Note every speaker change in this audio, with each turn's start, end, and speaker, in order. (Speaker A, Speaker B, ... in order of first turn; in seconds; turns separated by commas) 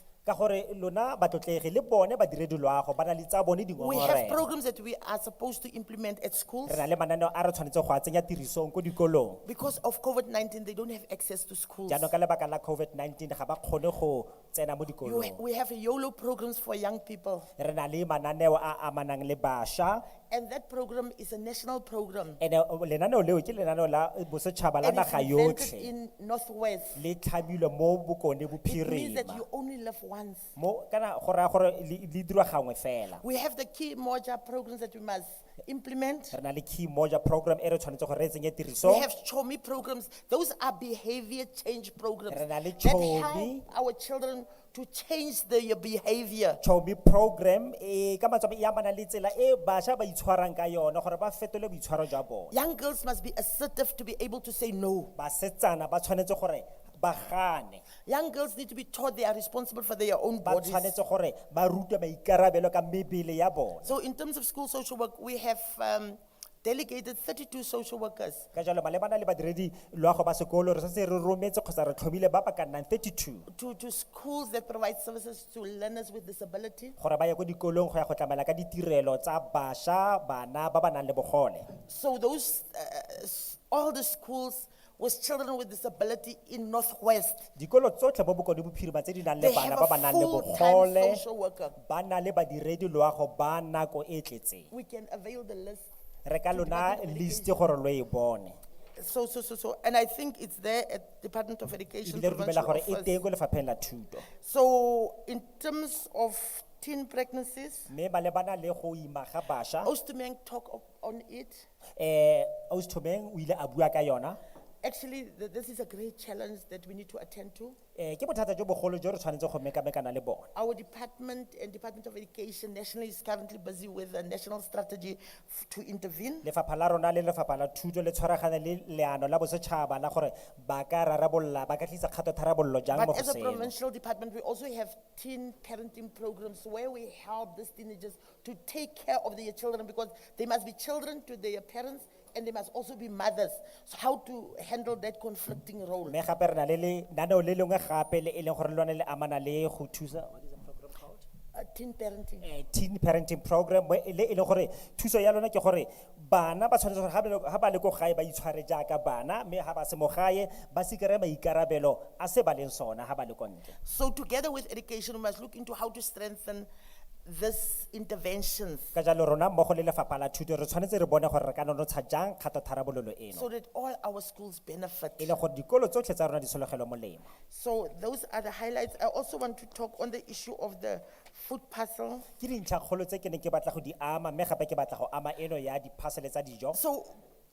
Speaker A: 0.3-4.5, Speaker B: 3.8-6.9, Speaker A: 6.7-9.4, Speaker B: 9.4-12.1, Speaker A: 11.9-15.4, Speaker B: 15.0-17.5, Speaker A: 17.6-20.1, Speaker B: 20.3-22.4, Speaker A: 22.4-25.9, Speaker B: 24.8-27.0, Speaker A: 27.0-29.4, Speaker B: 28.6-30.5, Speaker A: 30.6-33.2, Speaker B: 33.2-36.4, Speaker A: 36.3-39.1, Speaker B: 38.8-46.6, Speaker A: 42.3-43.6, Speaker A: 46.6-52.5, Speaker B: 52.5-55.1, Speaker A: 55.2-57.8, Speaker B: 58.0-61.0, Speaker A: 60.4-64.0, Speaker B: 63.8-68.5, Speaker A: 68.5-73.5, Speaker B: 73.5-77.0, Speaker A: 77.0-81.7, Speaker B: 81.8-87.5, Speaker A: 87.6-91.2, Speaker B: 89.4-91.8, Speaker A: 91.8-94.7, Speaker B: 94.7-95.9, Speaker A: 96.3-98.6, Speaker B: 96.5-97.6, Speaker B: 99.0-103.2, Speaker A: 102.0-104.3, Speaker B: 104.4-107.9, Speaker A: 107.9-109.9, Speaker B: 109.8-111.7, Speaker A: 112.0-114.4, Speaker B: 114.8-117.8, Speaker A: 118.0-120.5, Speaker B: 120.5-126.5, Speaker A: 126.4-133.7, Speaker B: 132.9-146.2, Speaker A: 146.1-151.2, Speaker B: 151.5-152.5, Speaker A: 152.4-163.7, Speaker B: 163.8-166.7, Speaker B: 167.2-168.9, Speaker A: 168.9-173.5, Speaker B: 173.3-175.4, Speaker A: 175.2-177.3, Speaker B: 177.5-182.3, Speaker A: 182.4-186.8, Speaker B: 186.7-187.2